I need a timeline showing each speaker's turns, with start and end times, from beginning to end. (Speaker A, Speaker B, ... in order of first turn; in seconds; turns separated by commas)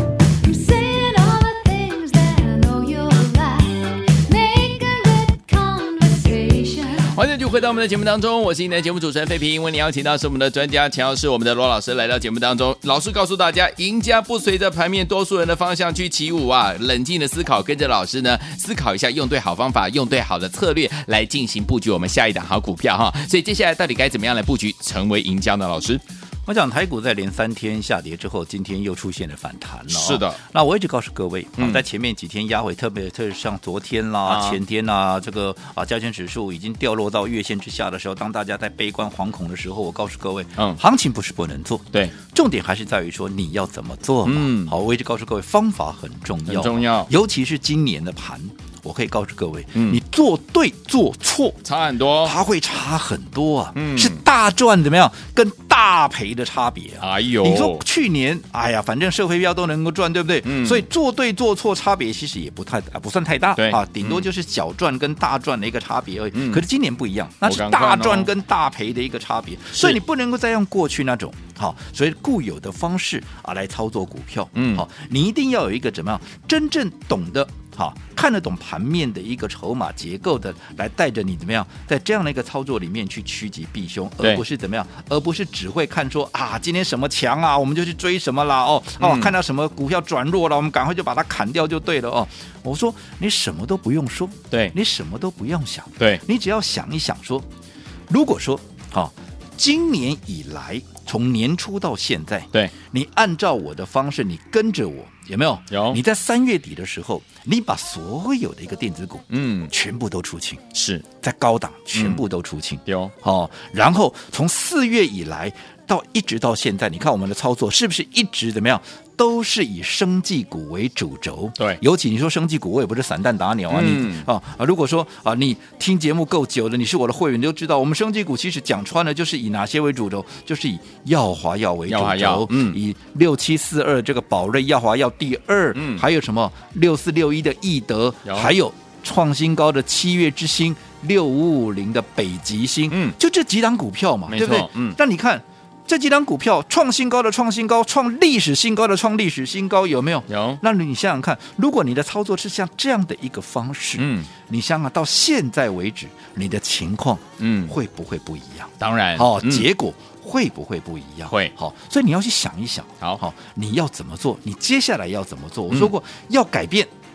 Speaker A: 0.4-7.1, Speaker B: 7.1-26.0, Speaker C: 26.4-51.6, Speaker B: 29.9-30.4, Speaker B: 31.6-31.8, Speaker B: 34.2-34.6, Speaker B: 44.2-44.7, Speaker B: 46.5-47.1, Speaker B: 49.7-50.0, Speaker B: 51.6-52.4, Speaker C: 52.2-97.5, Speaker B: 53.7-54.2, Speaker B: 57.0-57.8, Speaker B: 60.4-60.9, Speaker B: 63.5-64.2, Speaker B: 66.3-66.6, Speaker B: 67.4-68.3, Speaker B: 69.7-70.0, Speaker B: 74.5-74.8, Speaker B: 89.0-89.3, Speaker C: 98.1-110.6, Speaker B: 105.7-106.0, Speaker B: 109.3-109.7, Speaker B: 110.7-111.0, Speaker C: 111.2-166.9, Speaker B: 111.9-112.2, Speaker B: 112.8-113.1, Speaker B: 123.7-124.3, Speaker B: 131.9-132.8, Speaker B: 135.7-136.0, Speaker B: 138.2-138.5, Speaker B: 142.9-143.2, Speaker B: 144.3-145.0, Speaker B: 150.3-150.6, Speaker B: 154.0-154.3, Speaker B: 157.4-157.7, Speaker B: 158.8-159.7